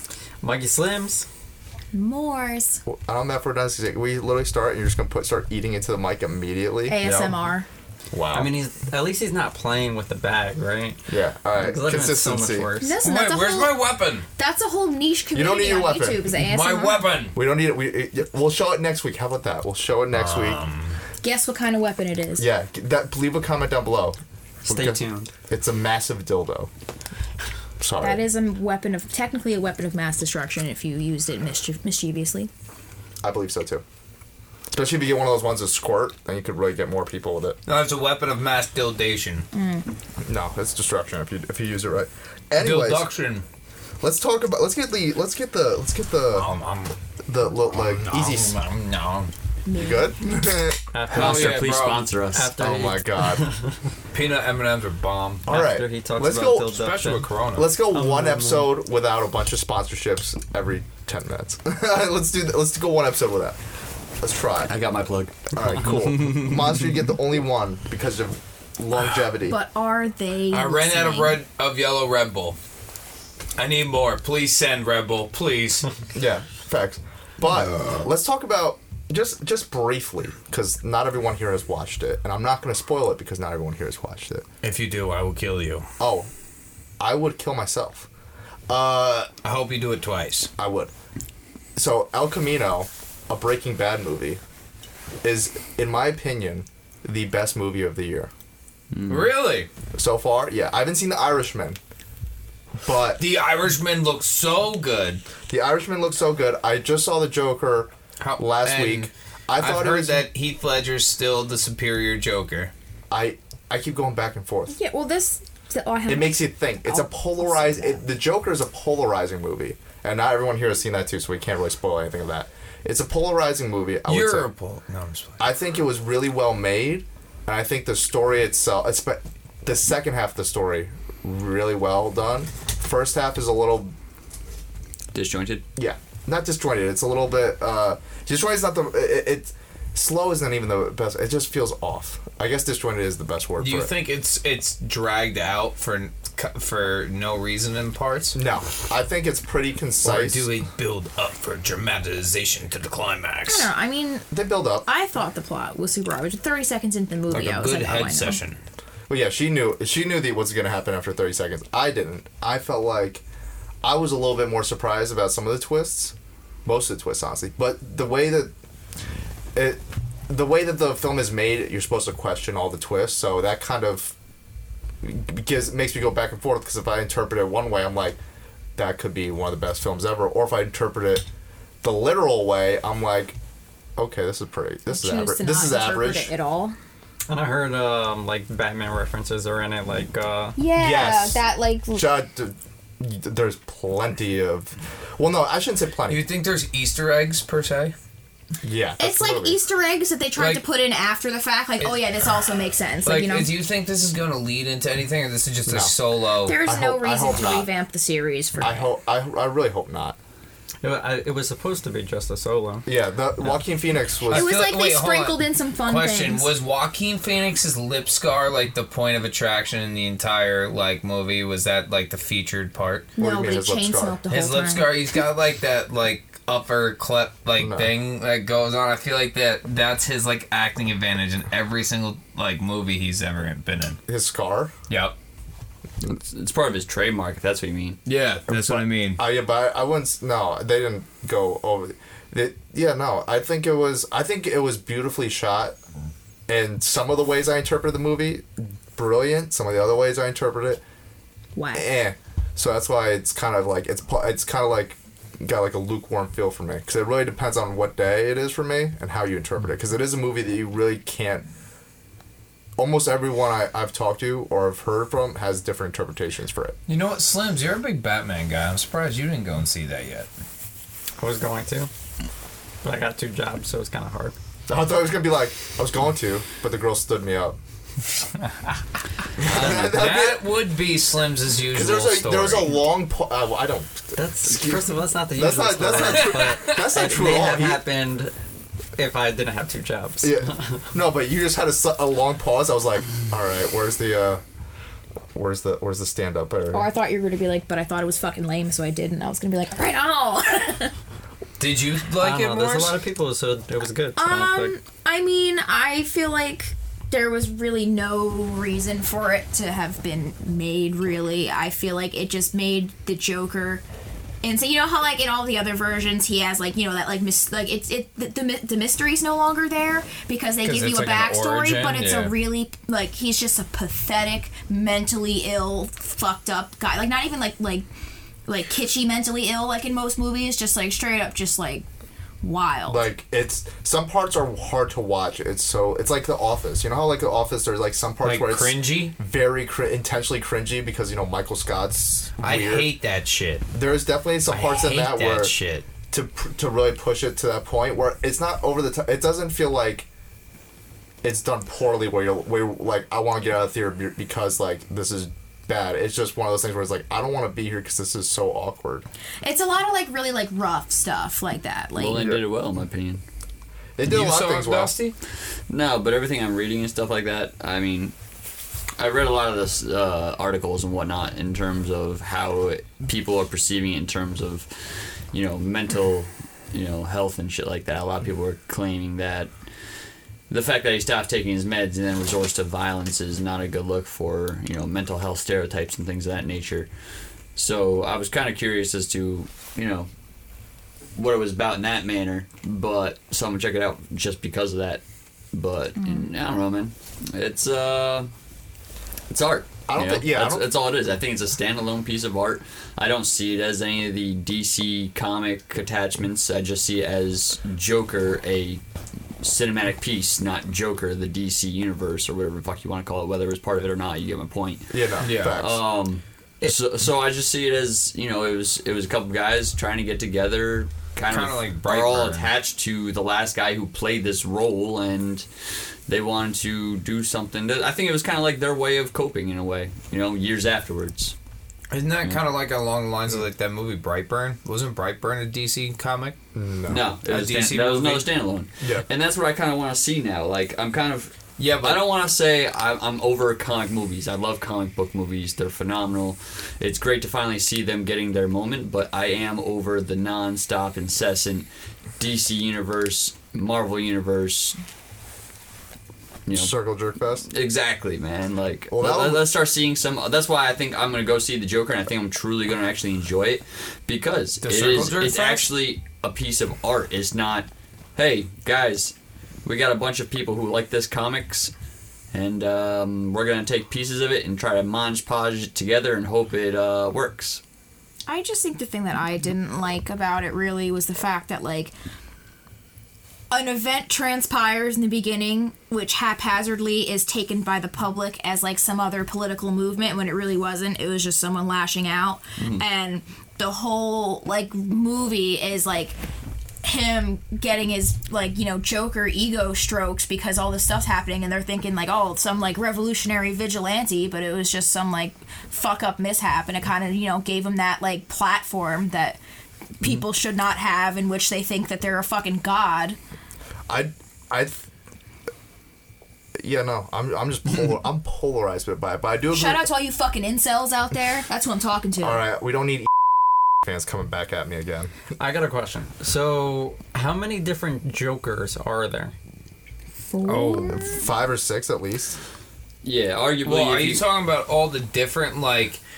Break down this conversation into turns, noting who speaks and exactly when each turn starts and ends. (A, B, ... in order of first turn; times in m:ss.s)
0:00.4-0:01.2 A
0:01.9-0:02.8 B
0:02.8-0:07.0 C
0:06.8-0:07.7 B
0:08.1-0:08.5 C
0:08.3-0:11.0 A
0:11.1-0:12.7 C
0:11.5-0:13.0 A
0:12.8-0:13.8 B
0:13.0-0:14.2 D
0:14.4-0:17.0 B
0:15.3-0:16.2 C
0:16.3-0:17.4 D
0:17.3-0:20.6 C
0:20.1-0:21.0 D
0:21.2-0:22.5 B
0:22.4-0:24.2 C
0:24.6-0:25.3 A
0:24.7-0:26.7 C
0:27.8-0:28.2 C
0:28.0-0:32.5 B
0:33.2-0:33.8 C
0:34.7-0:37.6 C
0:37.7-0:39.4 D
0:39.5-0:39.9 B
0:40.2-0:43.1 C
0:42.6-0:43.4 D
0:44.0-0:46.6 C
0:46.3-0:46.9 D
0:47.2-0:48.6 C
0:47.7-0:49.3 D
0:49.6-0:50.3 B
0:49.7-0:50.8 C
0:50.9-0:53.7 A
0:51.1-0:52.1 D
0:51.1-0:52.5 E
0:52.4-0:53.5 C
0:54.1-0:55.5 D
0:55.4-0:56.8 C
0:55.5-0:57.3 A
0:56.7-0:57.7 D
0:57.5-1:03.6 C
0:57.9-0:58.7 A
1:04.2-1:04.8 C
1:04.6-1:05.9 E
1:05.5-1:09.6 C
1:09.5-1:11.4 B
1:10.5-1:12.6 D
1:13.6-1:15.9 D
1:16.1-1:24.4 C
1:24.6-1:25.9 D
1:26.0-1:26.3 C
1:27.0-1:28.1 C
1:28.7-1:29.3 C
1:29.4-1:30.5 D
1:30.6-1:30.9 C
1:31.8-1:34.4 C
1:35.2-1:38.3 C
1:38.9-1:39.3 E
1:39.1-1:39.7 D
1:39.9-1:41.8 C
1:42.8-1:43.2 C
1:43.2-1:45.2 D
1:45.5-1:50.2 C
1:48.2-1:52.7 D
1:53.1-1:54.8 C
1:54.7-1:58.0 B
1:56.1-2:04.5 C
2:04.1-2:05.4 D
2:05.4-2:13.9 C
2:15.1-2:15.6 E
2:15.8-2:23.9 C
2:23.6-2:28.4 D
2:28.3-2:30.5 C
2:30.0-2:33.7 D
2:33.5-2:34.2 B
2:34.3-2:34.9 C
2:34.8-2:38.4 B
2:37.3-2:38.6 D
2:39.1-2:43.2 C
2:43.8-2:48.5 C
2:49.5-2:54.1 C
2:55.0-2:58.2 C
2:58.8-3:01.2 C
3:01.8-3:03.4 C
3:04.0-3:06.3 C
3:04.9-3:06.8 B
3:07.3-3:10.6 A
3:10.6-3:12.1 B
3:10.8-3:16.2 C
3:16.1-3:17.9 D
3:18.6-3:19.6 C
3:19.0-3:23.5 B
3:20.4-3:20.6 D
3:21.8-3:22.3 D
3:23.0-3:26.6 D
3:25.6-3:25.9 C
3:26.4-3:28.9 B
3:26.6-3:27.7 C
3:28.6-3:30.2 C
3:30.8-3:32.9 A
3:32.8-3:34.5 C
3:34.2-3:43.1 D
3:34.3-3:36.5 B
3:43.2-3:44.8 B
3:43.2-3:44.2 C
3:44.3-3:54.0 D
3:47.6-3:47.9 C
3:54.1-3:54.7 C
3:54.9-3:55.1 D
3:56.0-3:58.0 E
3:58.0-3:59.2 D
3:58.5-4:05.8 C
4:06.5-4:10.8 C
4:11.6-4:11.9 B
4:11.7-4:21.5 C
4:22.8-4:26.8 C
4:26.9-4:30.3 D
4:31.2-4:31.9 A
4:32.8-4:34.4 A
4:34.7-4:37.6 C
4:39.4-4:40.5 C
4:39.4-4:39.9 A
4:39.5-4:42.8 D
4:41.7-4:47.8 C
4:44.1-4:48.3 A
4:45.9-4:46.8 D
4:49.0-4:50.8 A
4:50.2-4:54.4 C
4:55.3-4:56.9 C
4:56.7-5:00.9 B
5:01.6-5:03.0 D
5:02.2-5:04.7 A
5:04.2-5:13.8 B
5:14.4-5:27.9 B
5:20.6-5:22.3 D
5:28.5-5:31.9 B
5:32.4-5:33.1 B
5:32.9-5:42.9 C
5:38.2-5:39.1 D
5:42.4-5:43.6 D
5:43.7-5:45.5 C
5:44.5-5:45.9 D
5:46.1-5:50.1 C
5:51.2-5:59.0 C
5:59.4-6:02.3 B
6:02.0-6:03.2 E
6:02.1-6:02.4 C
6:04.0-6:04.9 C
6:04.0-6:05.2 D
6:05.7-6:08.1 E
6:09.0-6:19.5 E
6:20.5-6:26.9 E
6:27.5-6:30.1 E
6:31.1-6:38.3 E
6:36.0-6:36.3 B
6:39.3-6:48.8 E
6:39.8-6:40.7 C
6:49.4-7:05.4 E
6:54.9-6:55.8 C
6:55.2-6:55.6 D
7:01.3-7:02.5 D
7:06.1-7:11.3 E
7:11.9-7:16.4 D
7:16.5-7:17.0 C
7:16.9-7:31.7 E
7:17.2-7:18.3 D
7:18.8-7:19.1 C
7:21.6-7:22.1 D
7:32.2-7:34.8 E
7:36.4-7:36.8 E
7:36.5-7:37.5 C
7:37.4-7:51.7 E
7:38.9-7:39.5 C
7:44.6-7:45.7 D
7:52.3-7:57.6 E
7:58.3-8:01.9 B
8:03.5-8:16.2 B
8:12.6-8:12.8 E
8:16.8-8:29.4 B
8:30.0-8:33.2 B
8:33.9-8:34.9 C
8:36.6-8:39.9 C
8:39.5-8:42.4 B
8:42.2-8:43.1 C
8:43.8-8:45.1 C
8:45.4-8:49.3 A
8:50.3-8:51.2 B
8:50.4-8:51.0 D
8:50.9-8:52.4 C
8:53.0-8:54.2 E
8:53.6-8:56.0 D